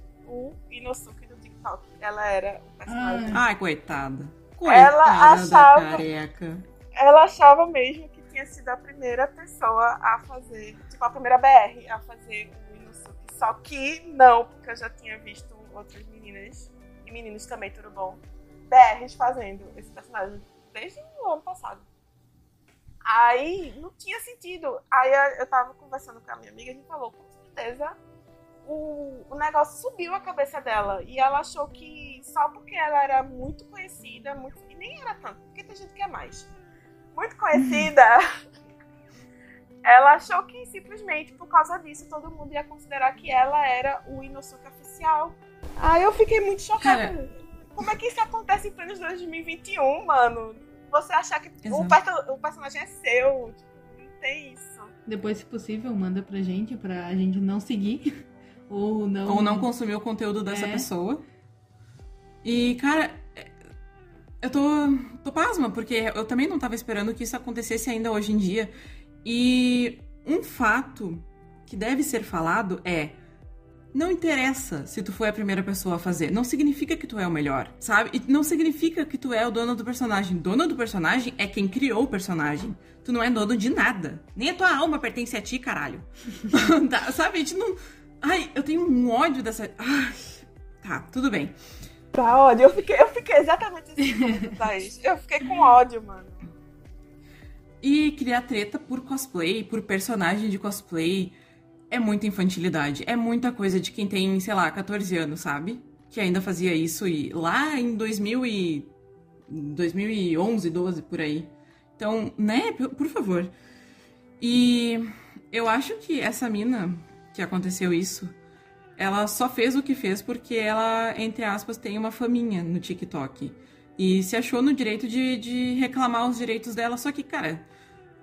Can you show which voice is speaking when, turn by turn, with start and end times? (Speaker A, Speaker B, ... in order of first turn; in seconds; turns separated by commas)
Speaker A: 0.3-3.4, Speaker B: 2.9-3.4, Speaker C: 3.3-6.6, Speaker A: 4.7-6.0, Speaker A: 7.0-21.9, Speaker A: 23.0-28.0, Speaker A: 28.6-36.5, Speaker A: 37.1-38.2, Speaker A: 39.8-54.9, Speaker C: 46.8-47.1, Speaker C: 51.6-52.0, Speaker B: 55.1-58.1, Speaker B: 58.7-59.7, Speaker C: 59.3-61.2, Speaker B: 60.5-60.9, Speaker C: 62.4-63.5, Speaker C: 64.4-68.7, Speaker C: 69.2-73.2, Speaker C: 73.9-91.5, Speaker A: 92.1-96.4, Speaker B: 94.1-94.5, Speaker C: 97.8-101.4, Speaker C: 101.9-108.9, Speaker C: 109.5-113.5, Speaker C: 114.4-118.3, Speaker C: 119.0-127.7